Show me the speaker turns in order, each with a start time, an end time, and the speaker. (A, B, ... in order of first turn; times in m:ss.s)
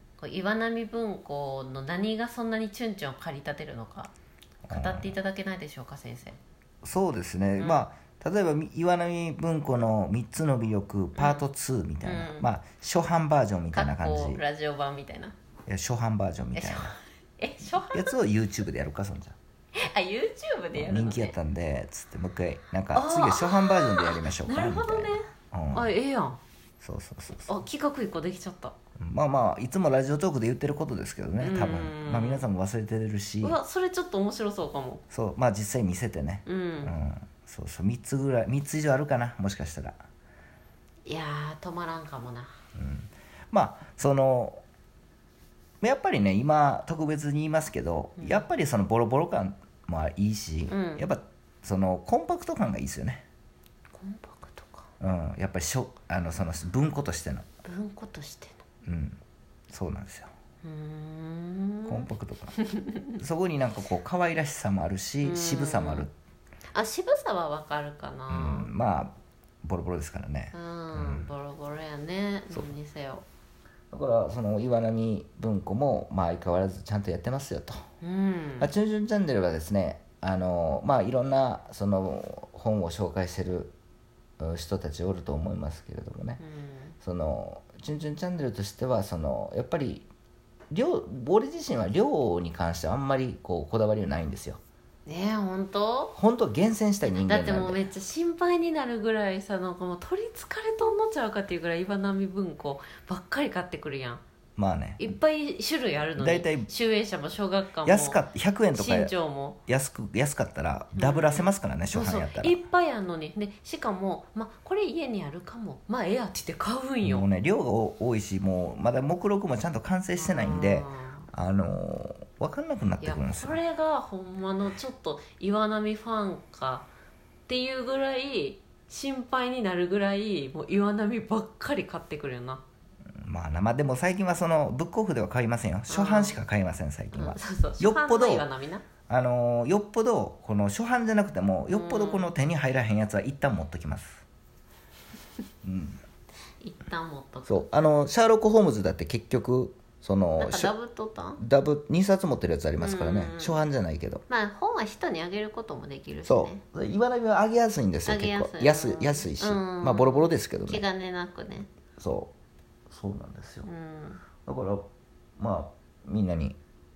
0:00.2-0:04.1 A
0:04.6-0:05.1 B
0:04.7-0:06.4 A
0:06.8-0:14.4 B
0:07.6-0:07.9 A
0:11.2-0:11.4 A
0:12.0-0:12.5 A
0:13.7-0:15.4 A
0:15.7-0:17.0 B
0:16.6-0:18.1 A
0:17.9-0:19.4 B
0:19.7-0:21.4 A
0:20.7-0:25.9 B
0:22.9-0:26.4 A
0:26.8-0:27.5 B
0:27.5-0:28.8 A
0:29.0-0:33.6 B
0:31.4-0:32.5 A
0:33.4-0:35.0 A
0:35.1-0:40.0 B
0:36.5-0:36.9 A
0:41.1-0:42.5 A
0:42.8-0:44.6 B
0:45.8-0:53.2 B
0:48.2-0:48.5 A
0:50.7-0:51.0 A
0:53.9-0:54.9 A
0:55.0-0:57.5 B
0:57.6-0:58.6 A
0:58.8-1:00.3 B
1:00.6-1:03.1 A
1:01.9-1:02.6 B
1:03.1-1:06.1 B
1:05.2-1:06.1 A
1:06.7-1:08.7 A
1:08.3-1:09.1 B
1:09.6-1:11.3 B
1:10.5-1:13.2 A
1:13.9-1:17.8 B
1:18.0-1:18.7 A
1:18.6-1:23.7 B
1:24.4-1:26.4 B
1:26.4-1:27.0 A
1:27.0-1:30.1 B
1:30.7-1:34.6 B
1:35.1-1:36.2 A
1:36.1-1:37.8 B
1:37.1-1:44.2 A
1:44.6-1:45.1 B
1:45.0-1:48.2 A
1:46.2-1:46.7 B
1:47.8-1:49.1 B
1:48.7-1:49.6 A
1:49.7-1:52.6 B
1:51.0-1:57.3 A
1:57.0-2:03.6 B
2:00.2-2:01.3 A
2:03.0-2:06.9 A
2:07.5-2:12.6 A
2:13.2-2:18.5 B
2:15.9-2:16.4 A
2:17.1-2:18.8 A
2:19.1-2:24.2 B
2:21.7-2:22.3 A
2:25.6-2:26.0 B
2:26.6-2:27.7 A
2:27.5-2:30.7 B
2:30.4-2:31.4 A
2:31.4-2:34.2 B
2:32.8-2:33.6 A
2:34.3-2:36.6 A
2:36.2-2:40.8 B
2:38.1-2:41.7 A
2:42.0-2:42.3 B
2:42.9-2:43.7 B
2:43.6-2:44.2 A
2:44.4-2:46.6 B